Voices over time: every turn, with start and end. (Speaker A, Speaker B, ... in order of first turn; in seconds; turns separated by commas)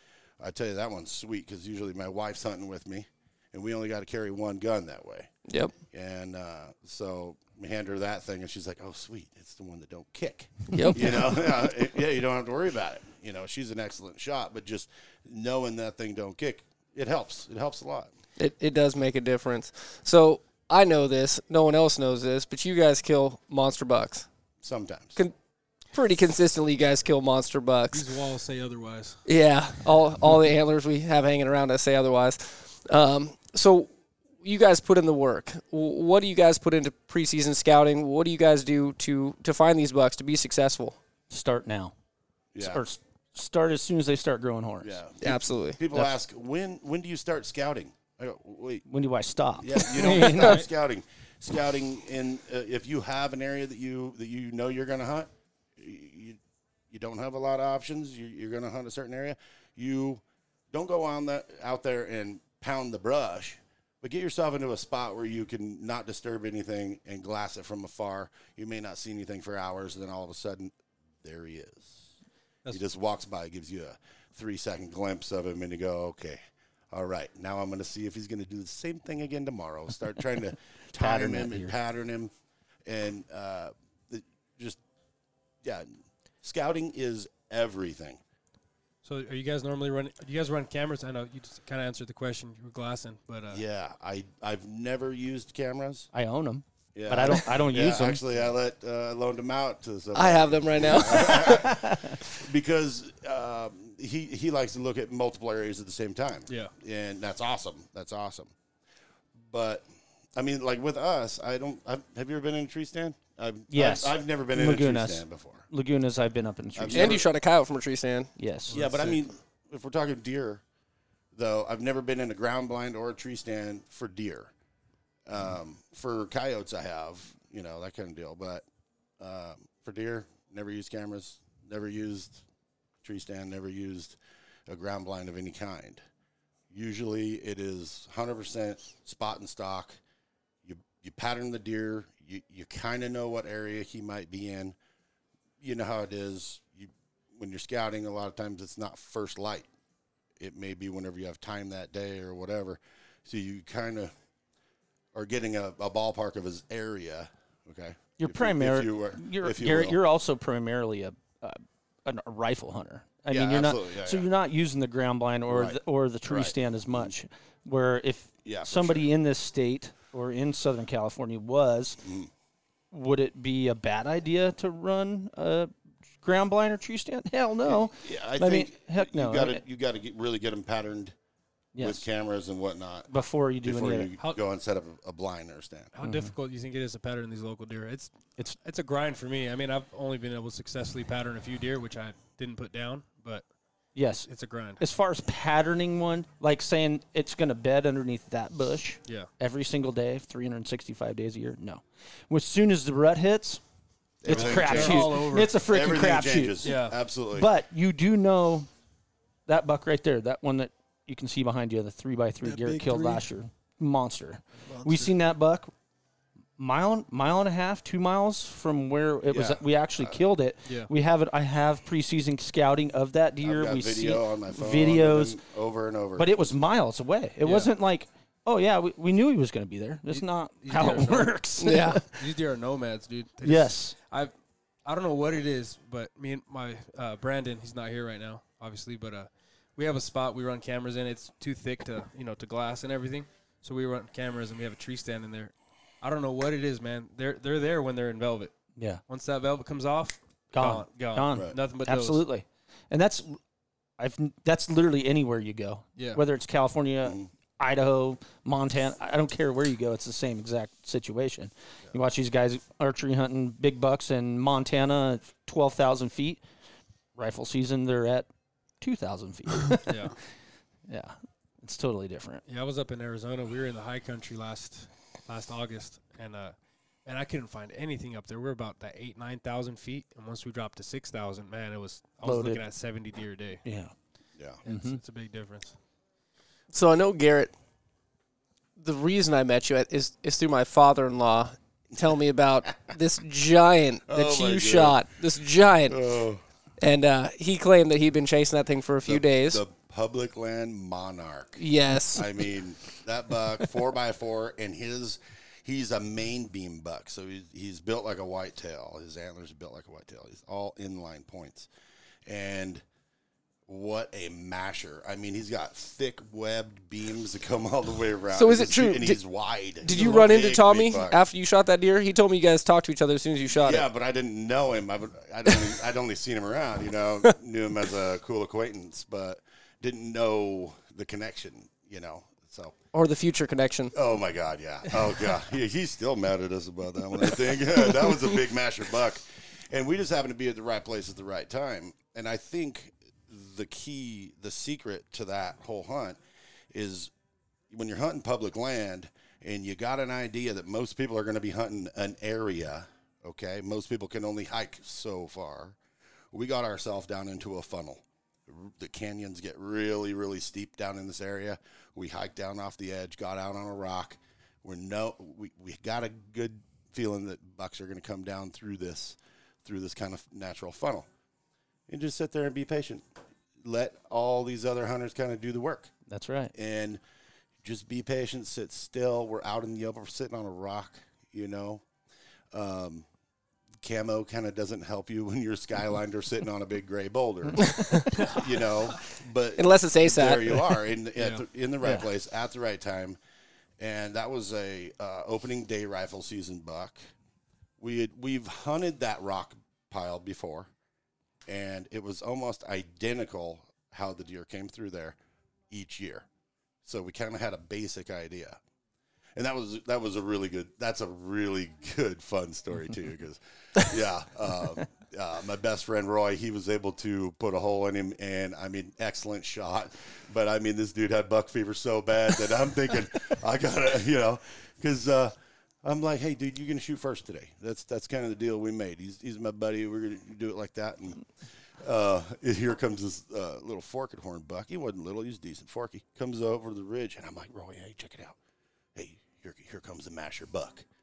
Speaker A: 0.4-5.3, Speaker B: 5.5-5.7, Speaker A: 5.9-18.1, Speaker B: 10.7-11.3, Speaker B: 18.4-24.3, Speaker A: 24.6-25.2, Speaker B: 25.9-28.1, Speaker C: 27.9-29.2, Speaker B: 29.3-33.9, Speaker B: 34.4-41.0, Speaker D: 41.3-41.9, Speaker A: 42.5-42.8, Speaker D: 42.6-45.0, Speaker A: 44.8-48.9, Speaker B: 45.2-45.8, Speaker D: 48.9-50.6, Speaker A: 49.6-56.4, Speaker A: 56.9-72.1, Speaker A: 72.7-76.4, Speaker A: 76.9-82.3, Speaker D: 80.9-81.7, Speaker A: 82.9-84.8, Speaker A: 86.4-88.2, Speaker C: 89.0-93.6, Speaker A: 93.5-96.1, Speaker D: 96.1-98.2, Speaker A: 97.0-108.5, Speaker B: 100.1-101.7, Speaker D: 101.5-102.1, Speaker A: 109.5-109.8, Speaker A: 110.4-115.7, Speaker D: 113.7-117.2, Speaker A: 116.8-117.3, Speaker B: 116.9-118.3, Speaker D: 118.4-118.8, Speaker C: 118.7-119.2, Speaker A: 118.7-120.6, Speaker A: 121.3-124.5, Speaker A: 125.3-128.6, Speaker A: 129.2-132.4, Speaker A: 133.0-134.2, Speaker A: 134.7-136.0, Speaker A: 136.7-140.0, Speaker A: 140.7-144.8, Speaker A: 145.6-149.7, Speaker A: 150.4-154.1, Speaker A: 155.1-160.0, Speaker D: 158.2-172.0, Speaker A: 163.3-164.3, Speaker A: 165.5-167.1, Speaker A: 168.4-169.1, Speaker A: 172.0-172.3, Speaker D: 172.9-175.7, Speaker D: 176.2-179.6, Speaker A: 177.7-181.1, Speaker D: 181.7-182.0, Speaker A: 181.8-183.1, Speaker D: 183.1-184.1, Speaker A: 183.6-185.9, Speaker C: 185.9-193.4, Speaker D: 186.0-186.3, Speaker D: 194.0-203.6, Speaker C: 194.3-194.8, Speaker A: 204.2-207.5, Speaker D: 204.3-206.8, Speaker C: 204.3-205.6, Speaker C: 206.6-207.0, Speaker D: 207.3-208.7, Speaker D: 209.5-215.7, Speaker C: 212.4-213.3, Speaker C: 214.6-215.2, Speaker D: 216.6-225.4, Speaker A: 219.3-220.2, Speaker A: 223.4-226.3, Speaker D: 226.2-232.1, Speaker C: 227.4-227.7, Speaker C: 230.1-234.3, Speaker B: 231.6-232.0, Speaker D: 233.4-234.0, Speaker C: 234.8-248.5, Speaker C: 249.1-252.2, Speaker D: 250.5-253.4, Speaker D: 254.0-266.4, Speaker D: 267.2-268.3, Speaker D: 268.8-270.0, Speaker C: 269.8-270.1, Speaker D: 270.9-272.4, Speaker C: 272.5-283.6, Speaker D: 282.2-282.6, Speaker D: 283.6-283.9, Speaker C: 284.6-285.8, Speaker D: 284.7-285.0, Speaker B: 286.7-287.5, Speaker B: 288.8-296.0, Speaker A: 294.1-295.0, Speaker A: 295.9-296.4, Speaker B: 296.8-299.6, Speaker A: 299.0-301.6, Speaker B: 301.6-302.4, Speaker A: 302.1-311.7, Speaker A: 312.3-312.8, Speaker A: 313.7-321.2, Speaker B: 318.3-319.2, Speaker B: 319.8-323.9, Speaker A: 323.6-332.7, Speaker B: 332.9-333.9, Speaker A: 333.9-346.2, Speaker A: 346.7-347.1, Speaker A: 347.7-355.8, Speaker A: 356.3-371.1, Speaker A: 371.9-373.0, Speaker A: 373.6-375.9, Speaker D: 376.1-376.5, Speaker A: 376.6-377.0, Speaker A: 377.6-381.8, Speaker A: 382.5-383.1, Speaker A: 383.8-393.2, Speaker B: 387.6-388.2, Speaker B: 389.6-390.8, Speaker C: 391.2-391.4, Speaker A: 393.8-397.0, Speaker A: 397.8-400.7, Speaker A: 401.5-405.2, Speaker A: 405.7-406.3, Speaker A: 406.9-408.6, Speaker A: 409.4-425.3, Speaker A: 425.8-431.3, Speaker A: 431.8-438.4, Speaker A: 438.9-440.9